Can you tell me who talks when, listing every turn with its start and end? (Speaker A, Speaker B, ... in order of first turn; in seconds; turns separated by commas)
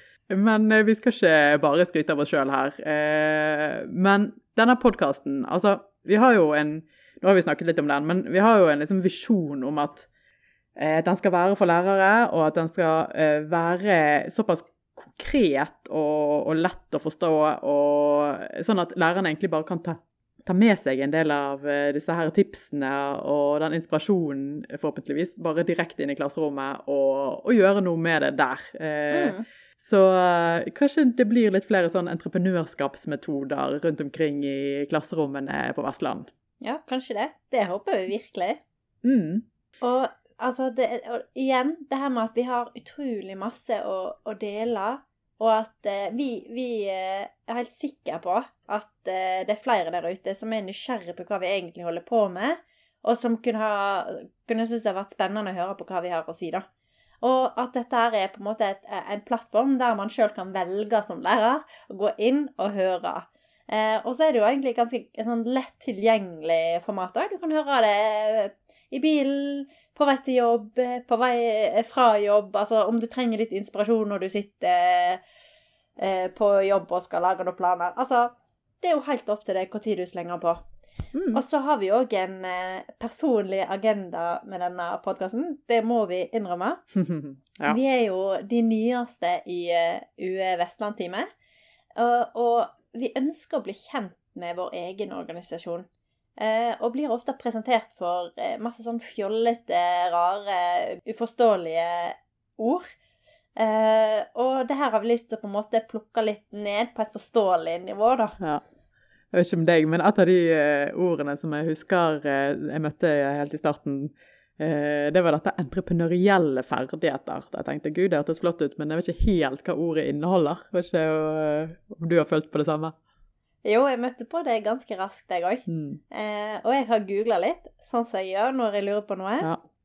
Speaker A: 0.3-10.1, Speaker A: 10.8-36.3, Speaker B: 29.1-29.4, Speaker B: 36.6-38.6, Speaker A: 39.0-39.4, Speaker B: 39.8-56.6, Speaker B: 57.2-75.2, Speaker B: 76.0-80.6, Speaker A: 81.1-81.4, Speaker B: 81.3-86.8, Speaker A: 86.9-87.8, Speaker B: 87.7-91.3, Speaker B: 92.0-95.9, Speaker B: 96.4-102.9, Speaker B: 103.6-108.4, Speaker A: 109.3-122.9, Speaker B: 123.6-129.5, Speaker A: 125.7-126.0